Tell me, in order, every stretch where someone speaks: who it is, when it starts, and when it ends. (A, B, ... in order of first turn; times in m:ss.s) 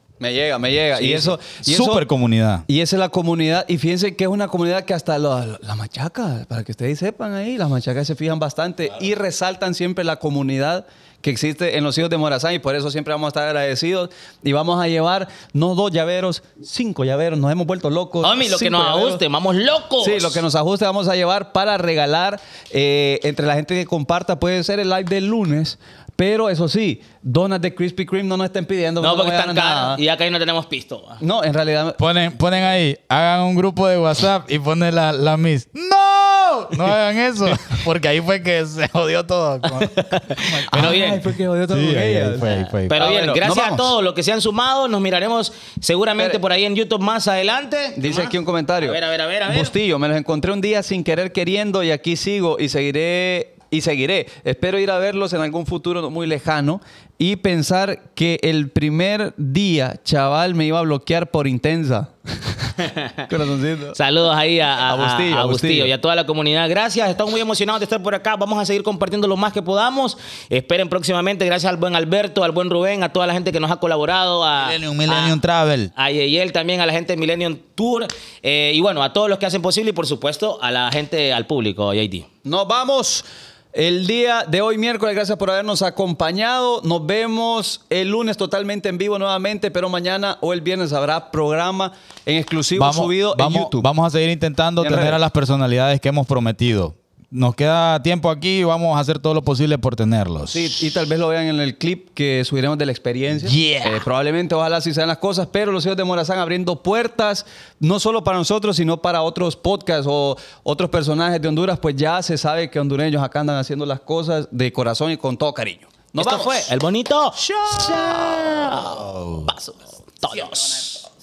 0:00.2-0:02.0 A
0:01.0-0:01.3 B
0:01.6-0:02.7 C
0:02.7-0:19.2 A
0:18.2-0:20.4 B
0:20.0-0:30.0 A
0:29.0-0:31.2 B
0:31.2-0:32.0 A
0:32.0-0:41.1 C
0:39.9-0:41.2 B
0:40.7-0:43.9 A
0:41.7-0:43.1 C
0:42.9-0:49.8 B
0:48.0-1:02.6 A
1:02.8-1:03.3 B
1:03.3-1:04.0 A
1:04.0-1:15.4 B
1:04.8-1:05.9 A
1:14.6-1:15.9 C
1:16.0-1:22.3 B
1:22.4-1:33.9 A
1:32.8-1:40.8 C
1:34.8-1:35.2 A
1:40.5-1:56.7 A
1:43.4-1:44.0 C
1:56.2-2:01.0 B
1:57.6-1:58.1 A
1:58.8-1:59.5 C